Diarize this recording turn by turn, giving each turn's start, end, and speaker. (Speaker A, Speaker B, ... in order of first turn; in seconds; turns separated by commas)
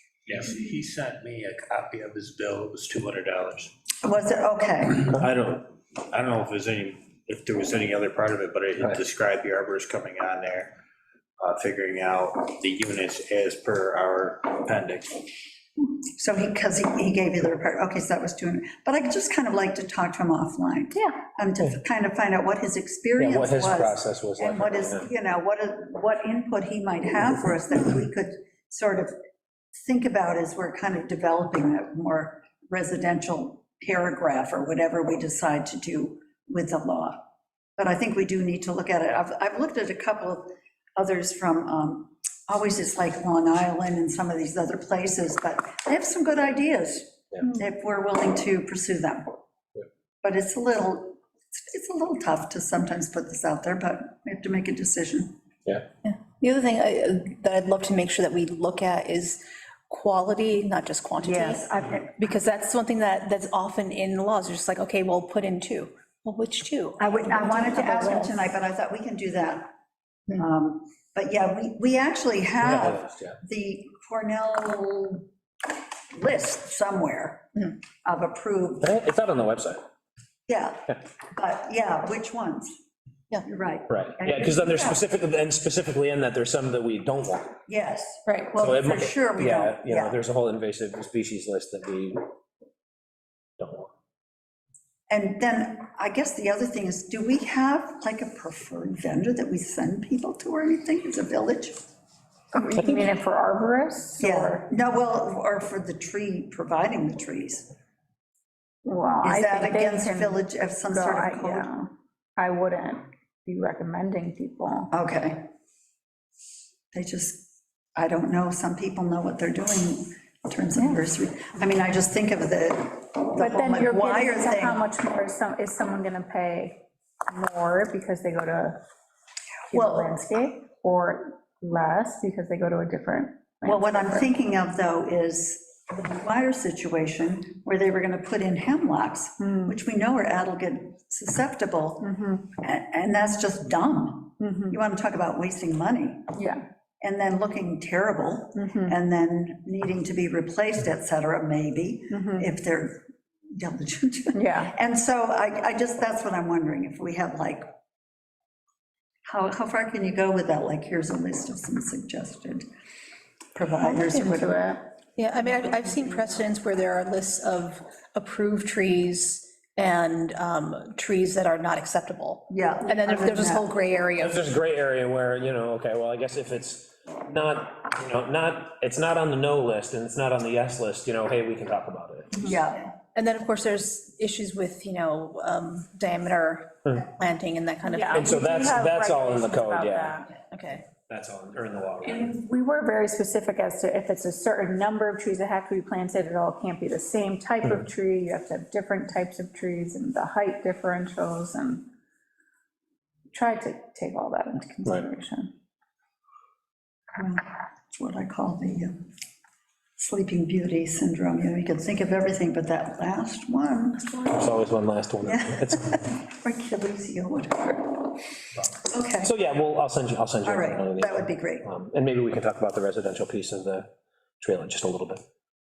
Speaker A: 0.3-3.7, Speaker B: 4.0-5.2, Speaker A: 5.2-10.7, Speaker A: 11.4-15.2, Speaker B: 16.2-29.2, Speaker C: 23.2-25.1, Speaker B: 29.7-37.2, Speaker B: 37.8-49.3, Speaker B: 50.2-55.3, Speaker D: 56.0-68.3, Speaker B: 61.2-62.0, Speaker B: 67.0-69.7, Speaker E: 67.4-68.2, Speaker B: 70.3-75.3, Speaker C: 72.6-73.4, Speaker B: 76.1-78.9, Speaker C: 78.8-79.8, Speaker B: 80.5-82.8, Speaker B: 83.4-85.0, Speaker C: 83.9-87.5, Speaker B: 87.7-90.2, Speaker D: 88.2-88.5, Speaker C: 88.6-92.2, Speaker C: 93.6-93.9, Speaker B: 95.1-101.8, Speaker E: 102.5-104.7, Speaker B: 104.2-107.7, Speaker E: 108.8-114.9, Speaker B: 109.2-111.7, Speaker B: 114.9-115.5, Speaker B: 116.9-124.8, Speaker E: 120.8-121.0, Speaker E: 123.4-128.8, Speaker E: 129.7-134.3, Speaker B: 129.7-130.2, Speaker B: 133.6-146.4, Speaker E: 139.4-139.8, Speaker E: 142.0-142.5, Speaker E: 144.4-144.8, Speaker E: 146.3-146.6, Speaker B: 147.0-153.0, Speaker E: 148.5-149.0, Speaker E: 152.1-152.5, Speaker B: 153.5-157.7, Speaker E: 154.3-154.7, Speaker B: 159.2-162.6, Speaker B: 163.5-164.7, Speaker E: 163.8-164.8, Speaker D: 164.1-164.4, Speaker D: 165.2-174.5, Speaker B: 172.5-173.7, Speaker C: 174.2-182.4, Speaker B: 182.4-182.9, Speaker D: 183.1-188.4, Speaker E: 187.8-190.3, Speaker C: 188.1-190.2, Speaker D: 190.5-190.8, Speaker C: 191.1-192.4, Speaker E: 192.1-201.8, Speaker E: 203.3-205.5, Speaker B: 207.2-208.9, Speaker B: 210.0-214.4, Speaker C: 214.3-216.0, Speaker B: 215.2-218.1, Speaker B: 218.8-219.3, Speaker C: 219.2-223.9, Speaker B: 220.4-221.7, Speaker C: 224.4-225.2